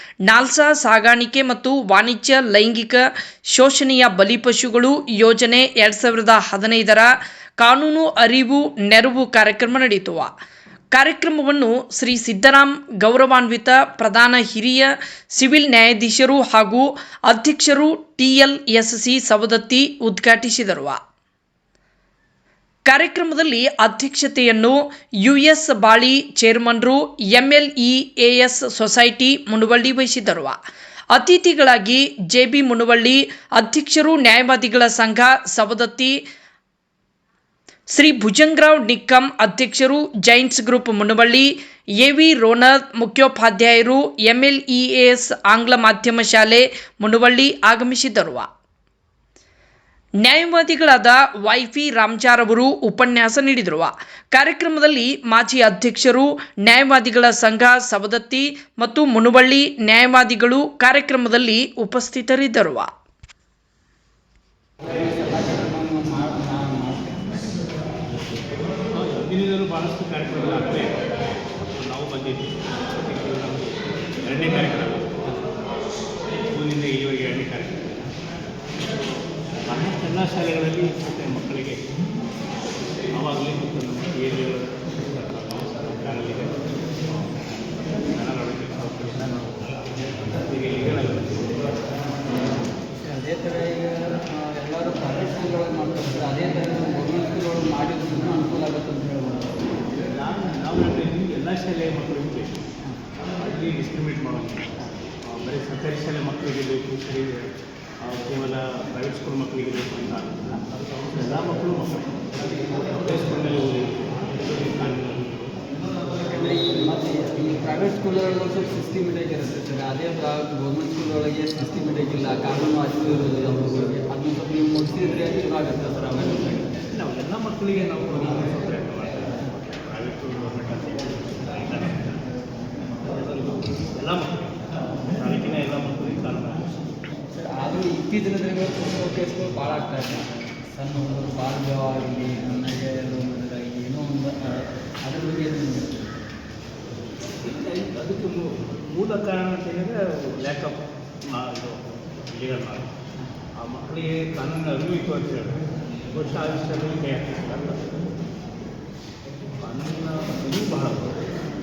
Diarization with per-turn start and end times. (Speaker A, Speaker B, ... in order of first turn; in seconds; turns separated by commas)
Speaker A: 0.3-10.3, Speaker A: 10.9-21.0, Speaker A: 22.9-30.6, Speaker A: 31.1-36.2, Speaker A: 37.9-48.5, Speaker A: 50.2-62.9, Speaker B: 64.8-67.7, Speaker C: 68.9-71.0, Speaker C: 71.8-75.1, Speaker C: 76.5-77.9, Speaker C: 79.7-81.8, Speaker C: 83.1-87.4, Speaker C: 88.1-89.6, Speaker C: 90.3-91.7, Speaker B: 93.0-99.7, Speaker C: 100.1-102.6, Speaker C: 103.3-107.5, Speaker C: 108.0-115.6, Speaker B: 116.1-126.7, Speaker C: 126.9-132.2, Speaker C: 133.1-136.8, Speaker B: 137.3-146.1, Speaker C: 147.4-150.8, Speaker C: 151.3-152.9, Speaker C: 153.6-155.6, Speaker C: 156.1-157.8, Speaker C: 159.6-161.2